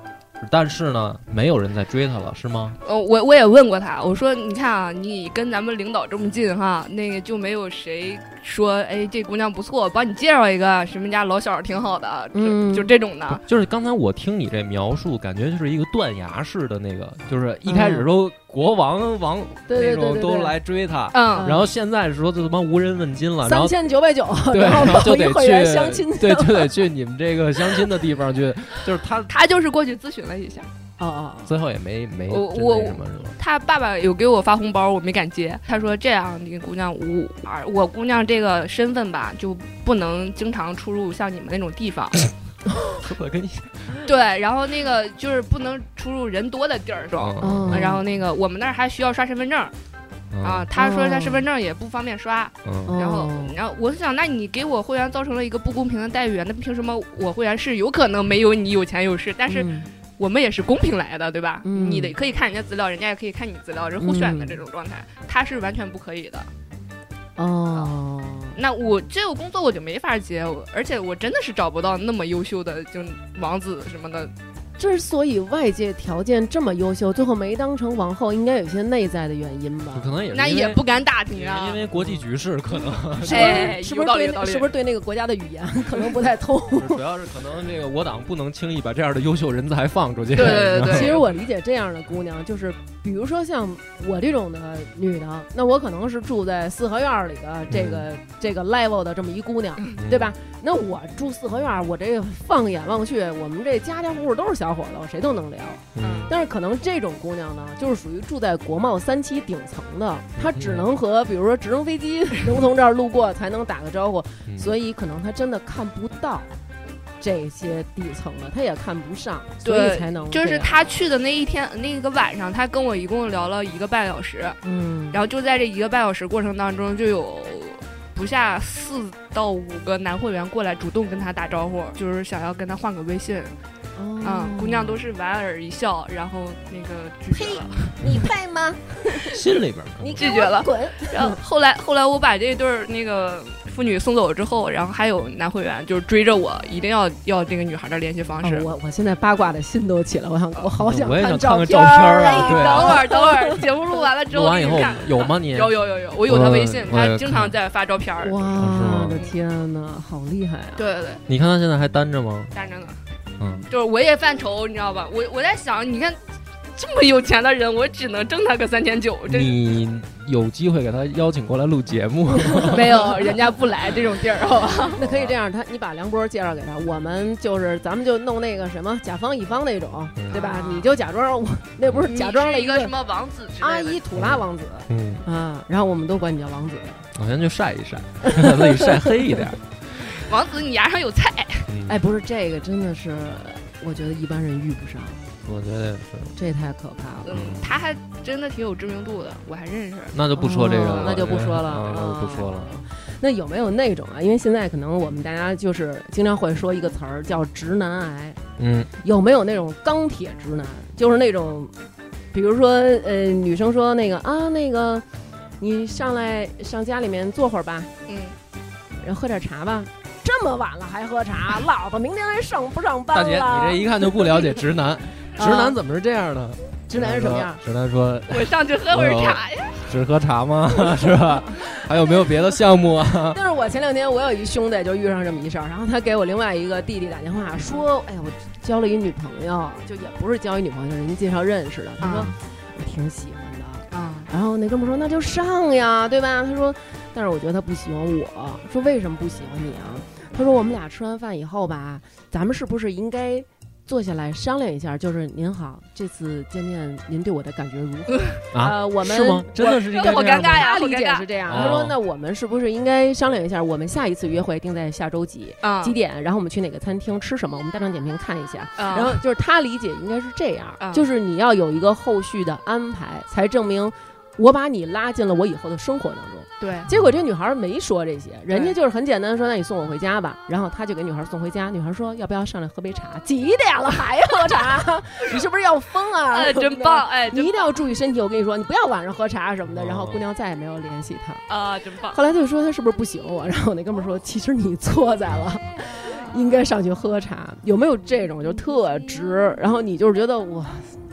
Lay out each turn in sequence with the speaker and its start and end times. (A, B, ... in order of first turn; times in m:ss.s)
0:00.4-0:02.8 A
0:02.8-0:13.4 B
0:12.3-0:12.9 C
0:13.3-0:23.8 A
0:17.7-0:18.1 C
0:19.7-0:20.5 C
0:21.1-0:21.5 B
0:21.3-0:21.7 C
0:23.4-0:26.8 C
0:24.5-0:29.3 A
0:29.3-0:30.7 B
0:31.0-0:31.5 C
0:31.4-0:33.4 A
0:32.3-0:42.2 B
0:43.0-0:44.0 A
0:44.0-0:49.7 B
0:47.2-0:48.0 A
0:47.4-0:48.0 C
0:50.3-0:50.7 A
0:50.4-1:06.5 B
0:50.7-0:51.4 C
0:52.6-0:53.0 A
0:52.8-0:53.6 C
0:59.5-0:59.9 C
1:01.6-1:02.2 C
1:04.0-1:04.6 C
1:07.4-1:08.6 C
1:08.5-1:14.3 B
1:14.8-1:20.1 C
1:19.9-1:23.8 A
1:20.3-1:21.8 B
1:23.2-1:27.0 C
1:23.2-1:24.7 B
1:26.8-1:31.2 A
1:30.3-1:31.2 B
1:30.4-1:56.5 C
1:37.7-1:38.1 A
1:40.0-1:40.3 A
1:45.9-1:46.3 A
1:46.0-1:46.4 B
1:50.4-1:50.9 A
1:54.5-1:54.7 A
1:57.2-2:00.8 C
1:59.6-2:04.6 B
2:04.6-2:05.2 C
2:05.1-2:13.5 B
2:14.0-2:15.0 C
2:14.2-2:18.1 B
2:17.3-2:19.4 C
2:19.2-2:20.2 A
2:20.0-2:21.4 C
2:20.2-2:28.7 B
2:28.4-2:33.6 C
2:30.8-2:33.1 A
2:32.2-2:39.3 B
2:34.3-2:37.5 A
2:38.2-2:40.8 C
2:38.6-2:39.2 A
2:40.8-2:41.2 B
2:41.3-2:42.5 A
2:42.5-2:43.0 B
2:43.4-2:43.7 A
2:43.7-2:46.2 B
2:46.7-2:49.5 B
2:49.3-2:53.1 A
2:52.4-2:53.1 C
2:52.7-2:55.0 B
2:54.9-3:02.9 C
2:55.0-2:55.4 A
3:00.2-3:00.4 A
3:00.3-3:00.9 B
3:01.8-3:02.1 A
3:02.1-3:04.0 B
3:03.6-3:07.0 C
3:04.1-3:05.2 A
3:07.1-3:10.2 A
3:08.3-3:09.1 C
3:10.1-3:11.7 B
3:11.7-3:12.0 A
3:11.8-3:15.2 C
3:15.4-3:16.3 A
3:16.3-3:17.3 C
3:17.2-3:20.2 B
3:17.3-3:17.7 A
3:20.1-3:22.8 A
3:20.3-3:28.4 C
3:20.7-3:21.2 B
3:28.6-3:28.9 A
3:29.0-3:31.7 C
3:32.3-3:35.0 C
3:35.6-3:37.9 C
3:38.1-3:38.3 B
3:39.0-3:44.6 C
3:43.1-3:53.4 A
3:45.4-3:45.8 C
3:46.9-3:47.6 C
3:48.3-3:49.9 B
3:53.3-4:51.4 C
4:02.0-4:02.3 B
4:03.9-4:04.3 B
4:18.5-4:20.7 A
4:19.6-4:21.2 B
4:21.4-4:22.0 A
4:25.6-4:25.9 B
4:28.8-4:29.2 B
4:30.8-4:31.1 B
4:36.6-4:36.9 B
4:36.9-4:37.2 A
4:38.5-4:38.8 B
4:46.3-4:47.7 B
4:49.7-4:50.2 A
4:51.5-4:52.2 B
4:52.1-5:01.0 C